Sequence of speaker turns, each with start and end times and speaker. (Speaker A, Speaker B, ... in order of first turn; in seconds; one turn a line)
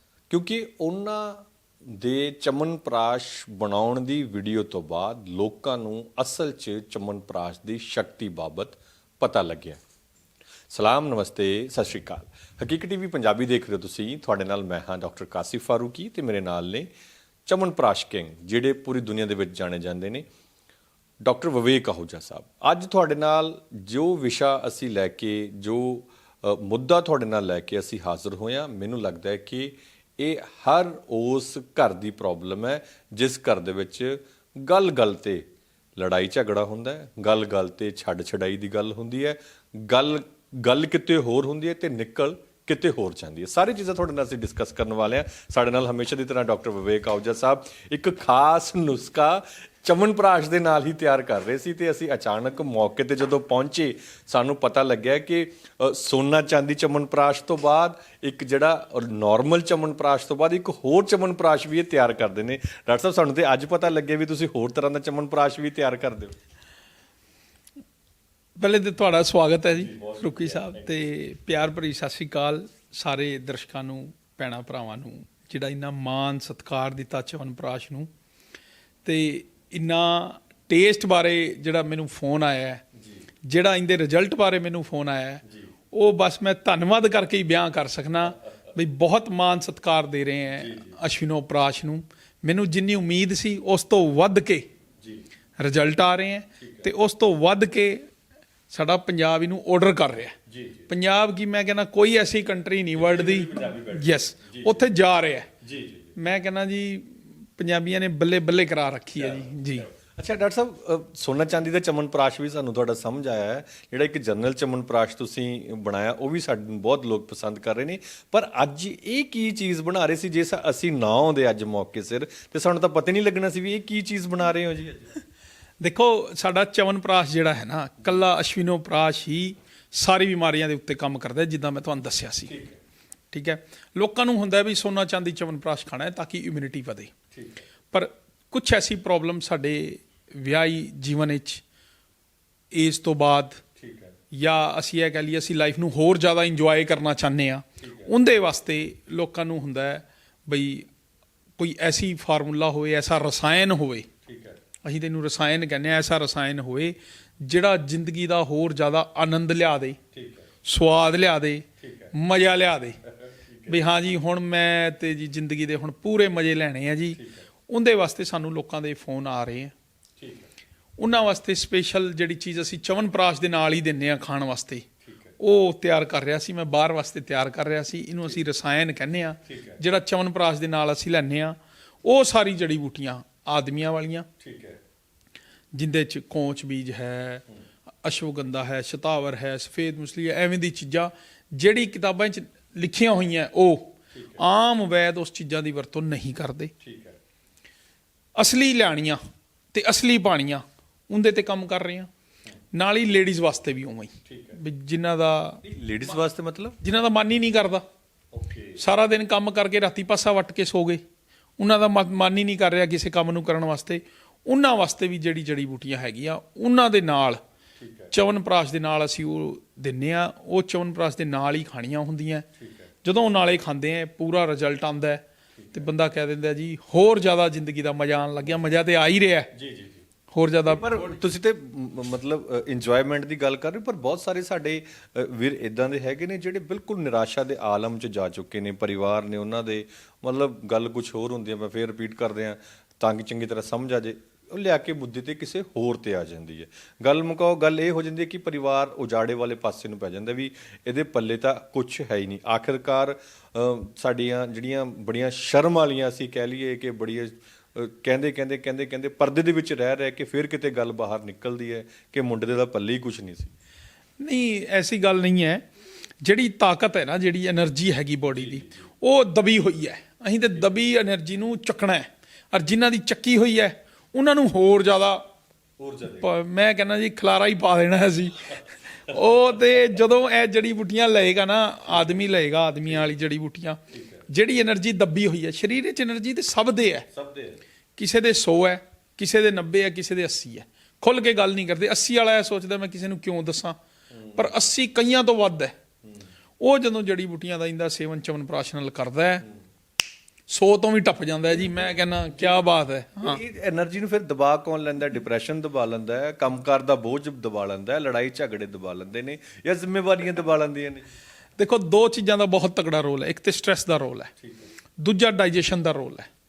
Speaker A: 0.3-9.8
Speaker A: 10.7-16.9
Speaker A: 17.5-20.3
Speaker A: 21.3-35.5
Speaker A: 36.0-66.3
Speaker B: 68.6-78.1
Speaker A: 69.7-70.9
Speaker B: 79.0-82.8
Speaker B: 83.5-94.7
Speaker A: 90.6-91.0
Speaker B: 95.6-98.1
Speaker A: 96.6-96.9
Speaker B: 98.7-100.4
Speaker A: 100.5-100.9
Speaker B: 100.9-105.5
Speaker A: 102.9-104.8
Speaker A: 105.6-106.2
Speaker B: 106.2-109.9
Speaker A: 109.2-125.1
Speaker B: 125.8-132.5
Speaker A: 132.5-132.8
Speaker B: 133.3-137.1
Speaker A: 137.3-137.6
Speaker B: 137.9-141.6
Speaker B: 142.7-143.6
Speaker A: 143.8-144.1
Speaker B: 144.3-150.9
Speaker A: 147.8-148.1
Speaker B: 151.6-154.1
Speaker A: 154.3-154.6
Speaker B: 154.8-160.0
Speaker A: 160.1-160.5
Speaker B: 160.7-163.0
Speaker A: 161.8-162.1
Speaker A: 163.2-163.8
Speaker B: 163.7-169.7
Speaker A: 167.2-167.4
Speaker A: 170.2-170.5
Speaker B: 171.0-174.9
Speaker A: 175.1-175.3
Speaker B: 175.4-184.3
Speaker A: 179.5-179.8
Speaker A: 184.4-184.8
Speaker B: 185.7-187.4
Speaker B: 188.0-196.7
Speaker A: 194.1-194.4
Speaker A: 196.8-197.2
Speaker B: 198.4-199.2
Speaker B: 199.7-202.1
Speaker B: 202.7-205.6
Speaker A: 204.3-204.6
Speaker A: 205.6-206.8
Speaker B: 206.8-207.8
Speaker A: 208.3-208.8
Speaker B: 208.8-211.0
Speaker B: 211.6-217.4
Speaker A: 217.8-218.1
Speaker B: 218.1-222.5
Speaker A: 222.6-222.9
Speaker B: 223.0-229.5
Speaker A: 229.6-230.0
Speaker B: 230.3-231.1
Speaker A: 230.7-263.5
Speaker B: 264.2-265.7
Speaker B: 266.2-275.2
Speaker A: 268.4-268.8
Speaker A: 275.8-276.3
Speaker B: 276.2-287.1
Speaker A: 283.9-284.2
Speaker A: 287.1-287.6
Speaker B: 288.0-293.8
Speaker A: 294.2-294.5
Speaker B: 294.4-295.8
Speaker B: 296.6-299.4
Speaker B: 300.5-303.4
Speaker A: 303.2-311.1
Speaker B: 311.6-314.3
Speaker A: 314.4-314.7
Speaker B: 315.0-316.3